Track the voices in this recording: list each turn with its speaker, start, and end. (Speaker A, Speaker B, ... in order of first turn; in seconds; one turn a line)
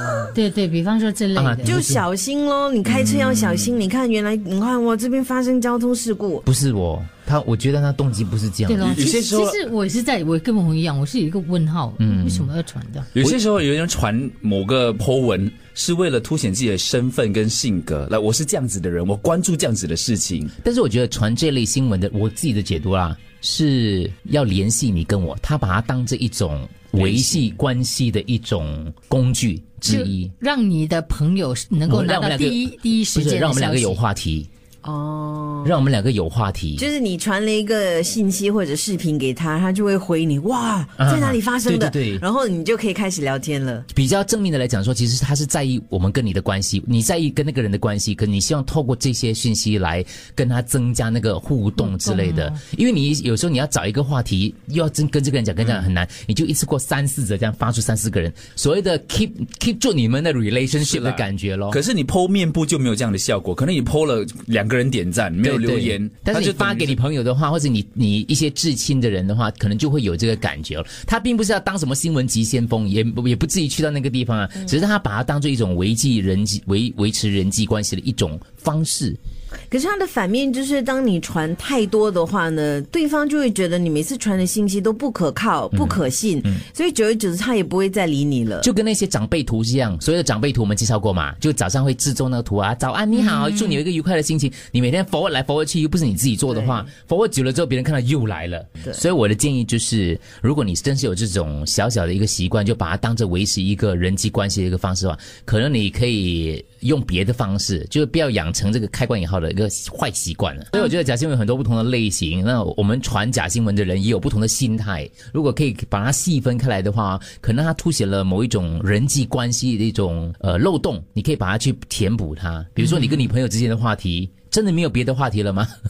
Speaker A: 0.3-2.0
Speaker B: 1.4-1.9
Speaker C: 1.6-6.5
Speaker D: 3.0-3.7
Speaker B: 6.5-9.0
Speaker A: 8.7-13.1
Speaker D: 8.8-9.6
Speaker B: 12.0-12.5
Speaker D: 13.1-20.5
Speaker B: 20.6-30.3
Speaker D: 27.0-27.4
Speaker A: 29.9-34.0
Speaker B: 31.9-34.5
Speaker C: 34.8-35.8
Speaker B: 35.6-36.9
Speaker C: 36.8-43.9
Speaker B: 41.0-42.2
Speaker B: 43.9-61.8
Speaker A: 51.8-52.6
Speaker D: 60.8-67.0
Speaker B: 65.4-79.2
Speaker C: 79.7-88.7
Speaker B: 88.6-125.7
Speaker A: 93.4-93.7
Speaker C: 96.6-96.8